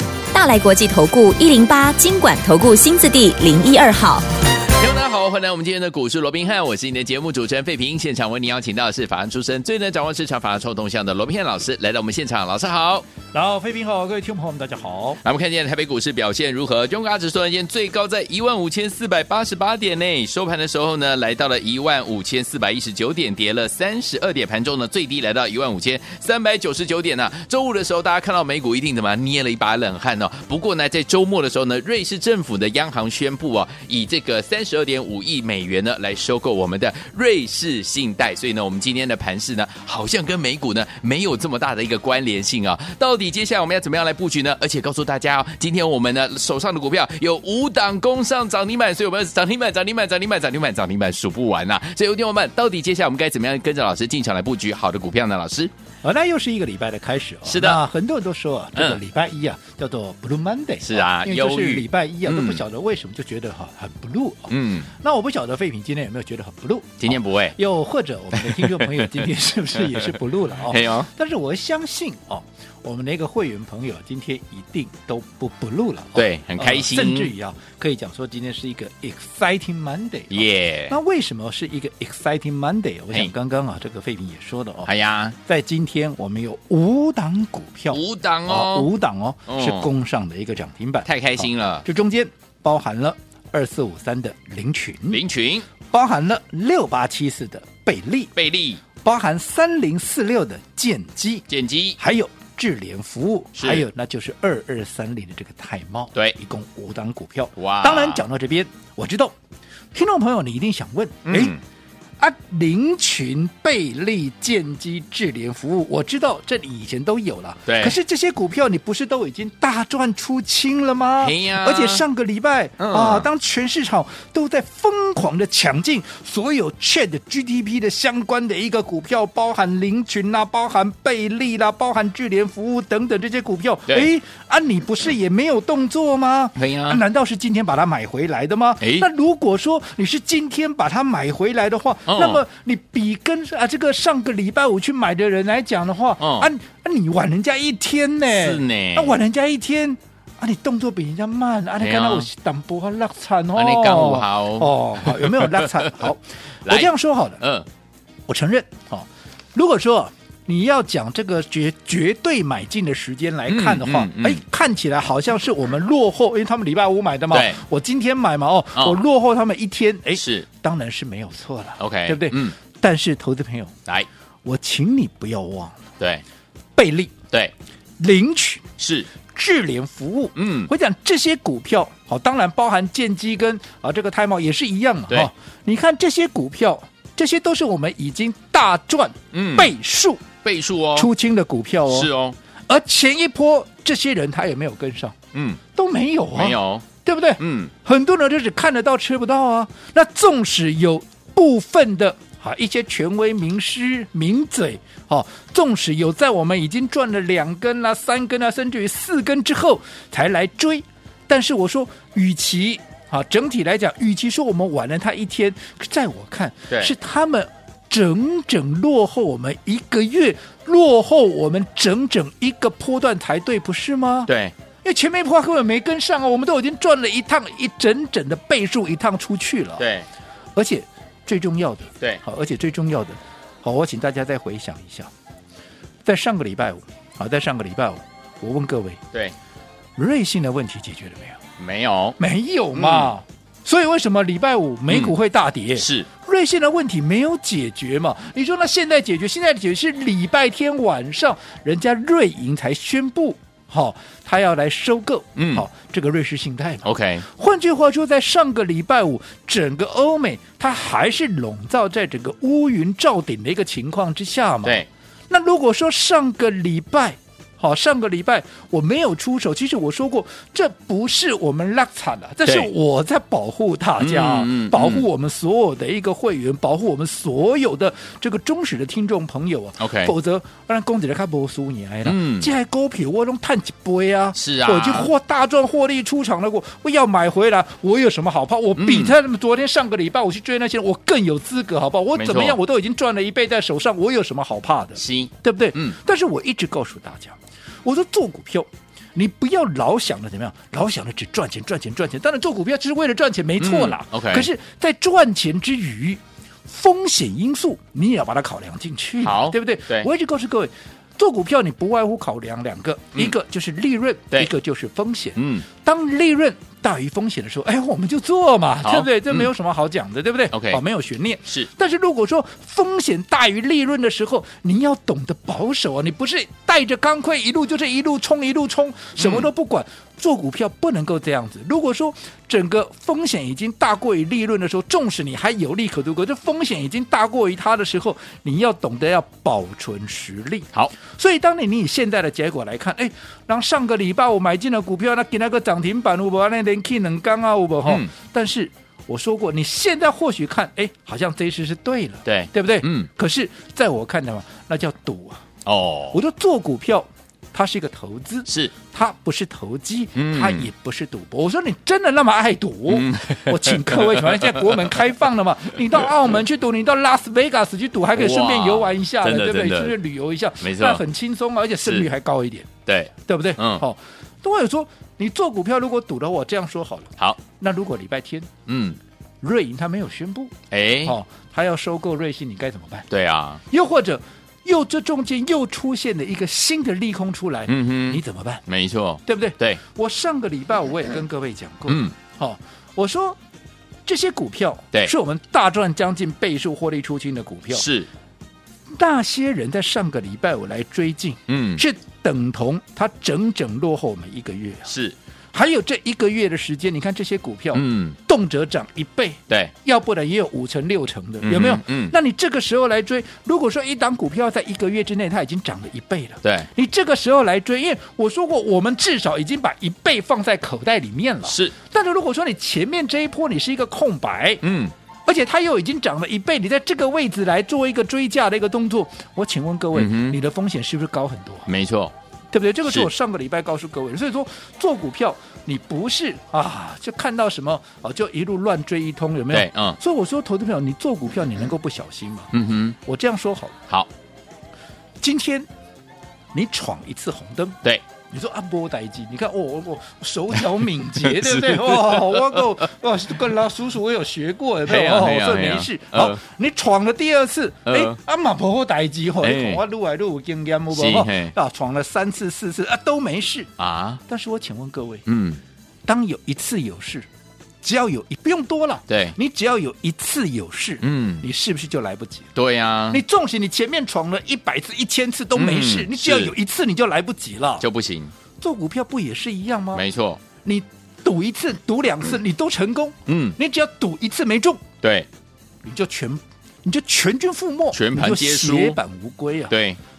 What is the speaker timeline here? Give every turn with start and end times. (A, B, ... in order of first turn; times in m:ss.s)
0:00.3-0:04.2 A
0:04.7-0:13.0 B
0:13.3-0:15.2 C
0:15.2-0:55.7 B
0:56.0-1:24.9 C
0:57.4-0:57.8 B
0:58.7-0:59.0 B
1:00.8-1:02.6 B
1:04.5-1:04.9 B
1:07.0-1:07.5 B
1:08.3-1:10.1 B
1:10.7-1:11.1 B
1:16.1-1:17.3 B
1:20.3-1:21.0 B
1:24.8-1:25.4 B
1:25.4-1:35.2 C
1:27.9-1:28.9 B
1:29.5-1:29.9 B
1:31.0-1:31.8 B
1:35.1-1:35.7 B
1:35.9-1:38.3 C
1:38.3-1:38.8 B
1:39.0-1:41.5 C
1:41.5-1:42.0 B
1:42.0-1:49.3 C
1:43.6-1:43.8 B
1:47.6-1:48.2 B
1:49.9-1:51.6 C
1:51.2-1:51.6 B
1:52.2-2:37.4 C
1:57.7-1:58.0 B
2:01.2-2:02.0 B
2:02.8-2:03.3 B
2:16.6-2:17.0 B
2:18.8-2:19.1 B
2:22.1-2:22.4 B
2:26.2-2:26.5 B
2:28.3-2:29.2 B
2:31.8-2:32.3 B
2:33.5-2:36.1 B
2:36.6-2:37.7 B
2:38.3-2:53.7 C
2:43.5-2:44.4 B
2:47.3-2:47.6 B
2:48.7-2:49.0 B
2:50.1-2:50.5 B
2:51.8-2:52.5 B
2:54.4-2:55.8 C
2:56.8-2:57.1 C
2:58.0-2:58.6 C
2:58.8-2:59.1 B
2:59.2-3:10.2 C
3:00.4-3:00.7 B
3:09.3-3:09.7 B
3:10.4-3:11.1 B
3:10.9-3:12.1 C
3:11.9-3:12.4 B
3:12.7-3:15.2 C
3:15.3-3:15.6 B
3:15.7-3:44.3 C
3:16.3-3:16.8 B
3:17.4-3:17.7 B
3:44.3-3:44.5 B
3:44.8-3:49.9 C
3:49.8-3:50.1 B
3:50.6-3:55.1 C
3:56.0-3:59.0 C
4:00.0-4:01.4 C
4:01.6-4:02.2 B
4:02.2-5:55.4 C
4:02.7-4:03.1 B
4:04.9-4:05.2 B
4:05.7-4:06.1 B
4:15.4-4:15.6 B
4:16.8-4:17.2 B
4:34.0-4:35.0 B
4:39.8-4:40.1 B
4:42.0-4:42.5 B
4:44.3-4:45.1 B
4:48.8-4:49.1 B
4:52.1-4:52.6 B
4:55.0-4:55.9 B
5:03.6-5:04.5 B
5:09.2-5:10.1 B
5:15.4-5:15.7 B
5:18.8-5:19.5 B
5:20.5-5:20.8 B
5:29.2-5:29.5 B
5:47.8-5:48.1 B
5:52.2-5:53.1 B
5:55.6-5:56.2 B
5:56.1-6:12.7 C
5:58.5-5:58.7 B
6:00.2-6:00.7 B
6:02.9-6:04.9 B
6:08.1-6:10.0 B
6:10.6-6:11.0 B
6:12.8-6:13.8 B
6:13.2-6:18.5 C
6:18.7-6:19.0 B
6:19.4-6:20.5 C
6:20.7-6:21.2 B
6:21.0-6:23.1 C
6:23.1-6:23.6 B
6:23.7-6:28.6 C
6:27.7-6:29.8 B
6:29.2-6:33.4 C
6:31.9-6:32.1 B
6:34.0-6:37.9 C
6:37.7-6:38.1 B
6:38.9-6:44.9 C
6:41.5-6:41.8 B
6:44.8-6:45.2 B
6:45.5-7:04.6 C
6:47.7-6:48.2 B
6:51.4-6:52.1 B
6:56.4-6:56.7 B
7:01.4-7:01.7 B
7:04.6-7:04.9 B
7:05.2-7:11.7 C
7:09.9-7:10.4 B
7:11.7-7:12.1 B
7:12.5-7:22.5 C
7:19.5-7:20.0 B
7:22.5-7:23.0 B
7:23.0-7:23.8 C
7:25.2-7:25.7 C
7:26.5-7:43.7 C
7:31.2-7:32.8 B
7:34.8-7:36.4 B
7:37.9-7:38.2 B
7:39.4-7:39.8 B
7:40.9-7:41.5 B
7:43.8-7:44.2 B
7:44.2-7:45.2 C
7:45.2-7:45.6 B
7:46.0-7:47.3 C
7:47.8-7:52.5 C
7:49.1-7:49.4 B
7:51.0-7:51.5 B
7:52.6-7:53.2 B
7:53.1-7:57.9 C
7:55.5-7:56.5 B
7:57.8-7:58.3 B
7:58.6-8:00.0 C
7:59.9-8:00.4 B
8:00.6-8:04.8 C
8:03.3-8:03.6 B
8:05.0-8:05.3 B
8:05.8-8:09.7 C
8:07.9-8:09.0 B
8:09.7-8:10.0 B